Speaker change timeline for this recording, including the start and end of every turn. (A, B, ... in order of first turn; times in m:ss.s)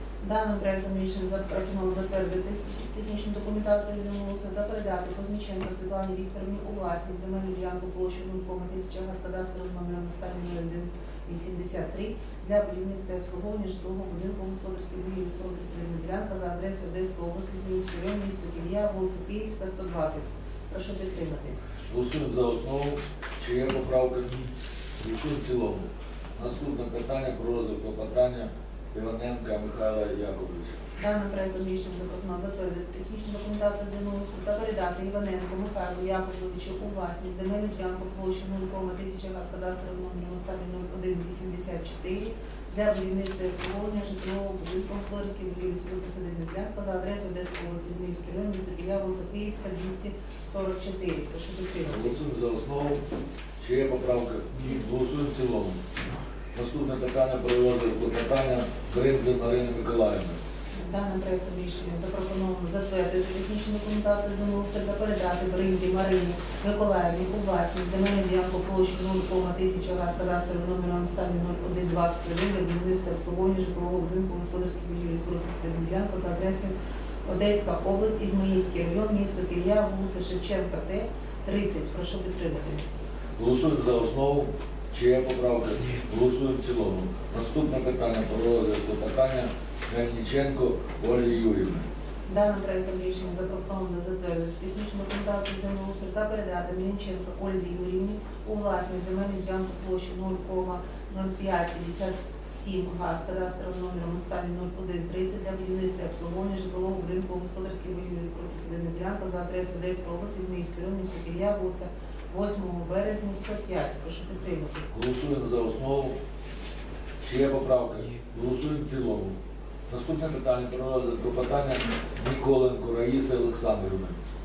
0:00.2-0:21.6 A
0:21.9-0:30.8 B
0:31.0-0:52.0 A
0:51.9-0:53.0 B
0:53.6-0:55.8 B
0:56.5-1:00.4 B
1:00.8-1:16.7 A
1:17.2-1:22.8 A
1:23.4-1:31.9 B
1:32.3-1:54.9 A
1:54.9-1:56.2 B
1:57.2-1:59.4 B
1:59.9-2:04.2 B